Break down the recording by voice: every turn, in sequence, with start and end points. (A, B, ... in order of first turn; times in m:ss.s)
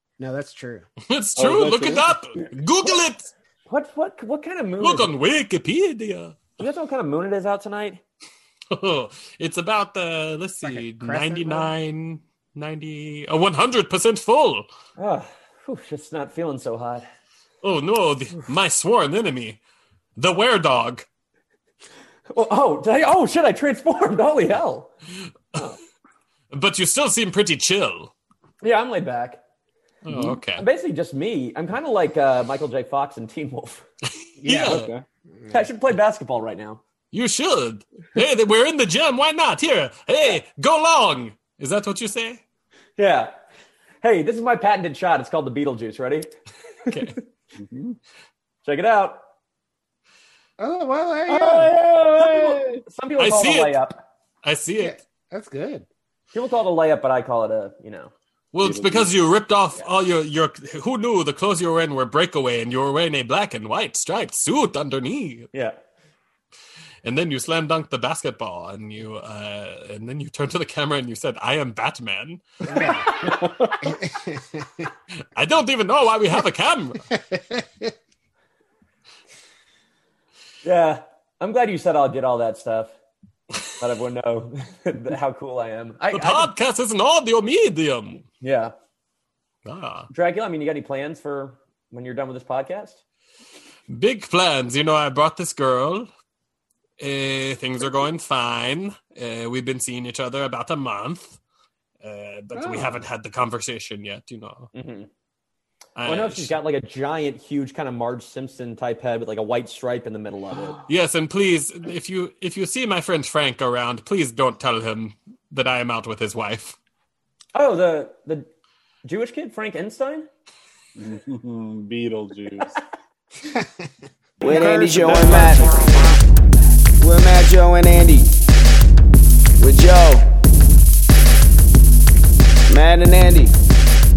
0:00.2-0:00.9 A
0:01.1-0:03.3 B
0:01.4-0:02.2 C
0:03.7-0:05.1 D
0:04.8-0:06.4 B
0:06.6-0:08.0 D
0:08.7-0:14.7 B
0:10.6-0:11.7 A
0:15.0-0:17.1 D
0:17.6-0:19.6 B
0:20.2-0:21.1 B
0:22.3-0:24.9 D
0:25.6-0:25.8 D
0:26.5-0:28.1 B
0:28.6-0:29.4 D
0:30.0-0:30.6 B
0:30.1-0:30.4 C
0:30.6-0:33.8 D
0:34.4-0:35.7 A
0:34.4-0:34.9 B
0:34.6-0:35.0 C
0:35.5-0:36.8 D
0:37.1-0:42.4 B
0:43.0-0:43.3 D
0:44.0-0:46.3 D
0:46.9-0:47.2 B
0:47.6-0:48.0 C
0:48.6-0:49.2 D
0:50.6-0:51.8 A
0:51.3-0:52.8 C
0:52.1-0:54.0 D
0:53.2-0:53.8 B
0:54.4-0:55.0 B
0:54.8-0:55.8 A
0:56.3-0:58.1 D
0:58.5-1:05.5 B
0:58.6-0:59.1 C
1:05.5-1:05.8 D
1:07.0-1:12.8 B
1:12.7-1:13.1 A
1:13.0-1:13.4 D
1:13.2-1:13.8 C
1:13.8-1:14.7 A
1:15.4-1:17.1 B
1:17.2-1:17.9 A
1:20.6-1:22.9 D
1:23.8-1:26.5 D
1:26.1-1:28.3 B
1:28.4-1:28.7 D
1:29.6-1:30.1 B
1:30.1-1:33.0 D
1:33.9-1:36.1 B
1:37.0-1:41.4 B
1:42.0-1:44.7 B
1:42.6-1:43.0 C
1:44.7-1:45.1 D
1:46.0-1:46.6 B
1:46.0-1:50.8 D
1:50.9-1:56.8 B
1:57.5-1:58.5 D
1:59.0-2:00.3 D
2:01.0-2:02.8 C
2:04.4-2:05.8 E
2:04.4-2:06.0 A
2:05.0-2:05.4 C
2:07.0-2:08.4 E
2:09.6-2:10.3 E
2:12.7-2:13.6 E